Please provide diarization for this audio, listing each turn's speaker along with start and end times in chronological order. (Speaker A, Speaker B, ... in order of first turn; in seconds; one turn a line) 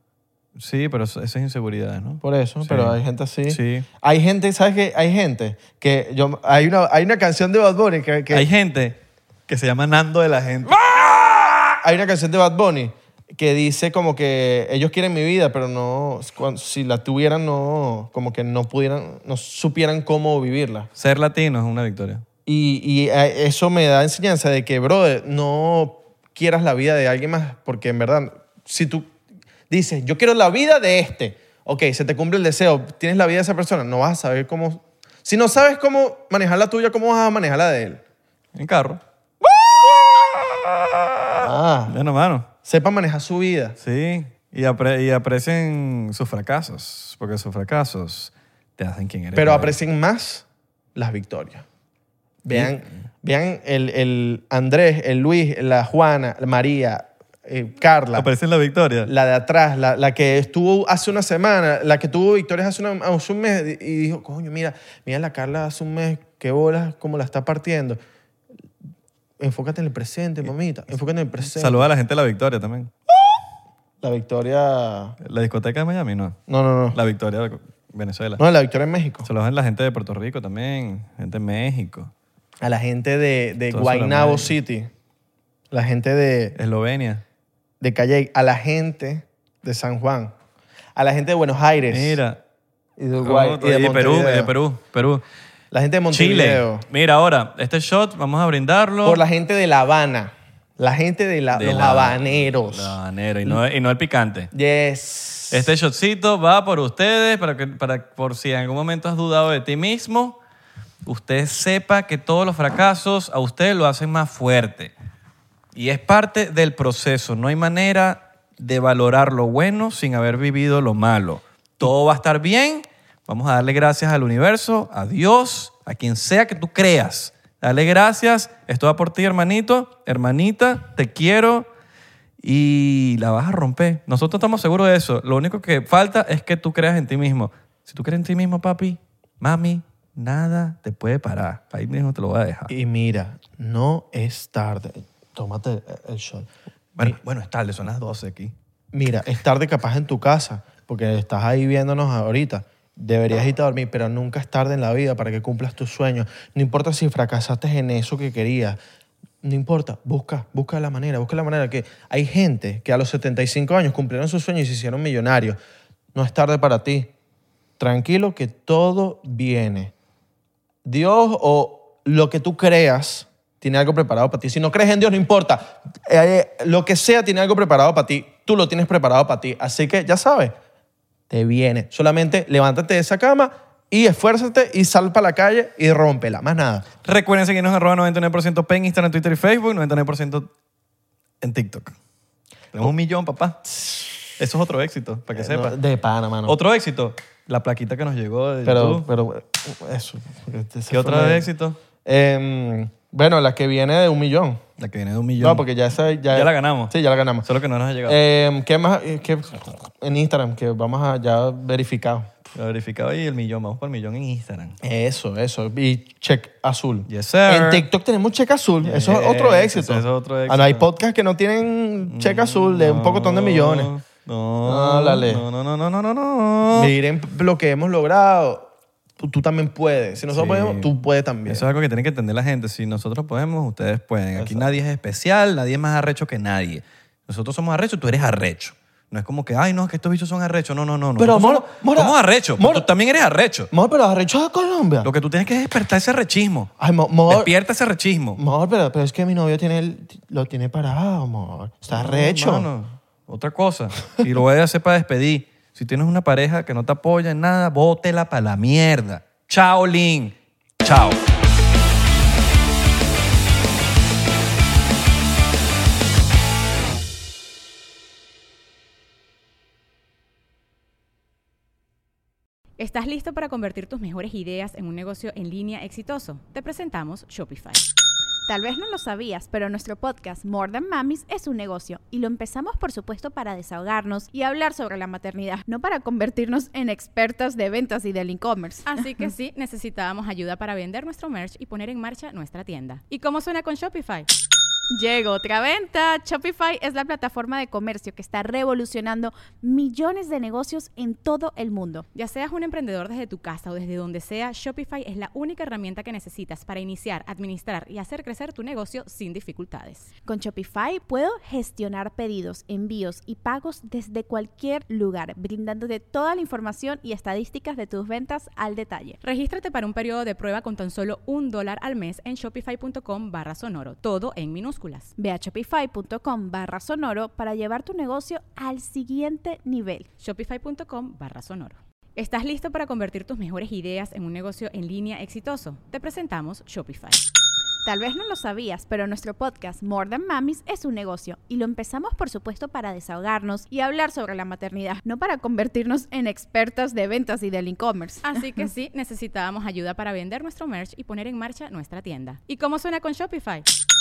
Speaker A: 0.6-3.9
Speaker B: 2.2-8.5
Speaker A: 8.3-11.7
Speaker B: 11.8-20.9
Speaker A: 21.0-22.2
Speaker B: 22.5-29.1
Speaker B: 29.7-38.0
Speaker A: 38.6-39.0
Speaker B: 39.4-39.8
Speaker A: 40.5-42.5
Speaker B: 41.4-42.0
Speaker B: 42.6-43.8
Speaker A: 43.8-49.8
Speaker B: 49.4-51.6
Speaker B: 52.4-58.3
Speaker A: 52.5-52.8
Speaker A: 58.1-59.1
Speaker B: 59.0-68.0
Speaker B: 69.4-71.9
Speaker A: 71.4-72.9
Speaker B: 74.0-75.2
Speaker A: 75.2-76.4
Speaker B: 76.5-77.0
Speaker A: 76.9-78.4
Speaker B: 78.4-79.3
Speaker A: 79.2-82.1
Speaker B: 82.6-84.9
Speaker A: 83.7-84.5
Speaker B: 85.7-86.6
Speaker A: 86.6-87.2
Speaker B: 87.8-90.3
Speaker B: 91.0-92.2
Speaker A: 91.9-92.4
Speaker B: 93.0-94.5
Speaker A: 93.2-95.2
Speaker B: 95.7-96.9
Speaker A: 96.1-99.2
Speaker B: 99.0-103.6
Speaker A: 101.5-104.5
Speaker B: 104.5-105.7
Speaker A: 105.5-110.4
Speaker A: 111.0-114.9
Speaker A: 115.8-131.7
Speaker A: 132.4-142.7
Speaker B: 142.7-146.5
Speaker A: 147.0-148.5
Speaker B: 148.9-158.8
Speaker B: 159.4-165.6
Speaker B: 166.1-167.1
Speaker B: 167.8-169.9
Speaker B: 170.8-180.5
Speaker B: 181.3-186.9
Speaker A: 187.0-190.5
Speaker A: 191.4-191.9
Speaker A: 192.7-193.7
Speaker B: 193.8-194.2
Speaker A: 194.4-195.8
Speaker B: 195.3-196.6
Speaker A: 196.5-199.1
Speaker B: 198.7-201.5
Speaker A: 200.9-201.8
Speaker B: 202.1-204.6
Speaker A: 204.8-205.7
Speaker B: 205.4-207.5
Speaker A: 206.3-208.2
Speaker B: 208.1-212.3
Speaker A: 212.5-214.8
Speaker B: 214.8-223.9
Speaker A: 217.1-217.9
Speaker A: 218.8-220.9
Speaker A: 222.1-226.9
Speaker B: 224.7-225.4
Speaker B: 226.7-231.7
Speaker A: 230.3-230.9
Speaker A: 231.5-243.7
Speaker B: 234.4-234.7
Speaker B: 241.2-242.9
Speaker B: 243.7-245.1
Speaker A: 245.0-246.7
Speaker B: 246.8-247.5
Speaker A: 247.3-248.4
Speaker B: 248.4-252.7
Speaker A: 251.9-261.2
Speaker C: 272.8-277.8
Speaker D: 278.5-289.0
Speaker C: 288.9-294.3
Speaker D: 294.9-302.1
Speaker C: 302.1-310.1
Speaker D: 310.3-319.2
Speaker C: 319.2-325.1
Speaker D: 325.2-330.1
Speaker C: 330.2-337.2
Speaker D: 337.9-348.3
Speaker C: 348.2-353.7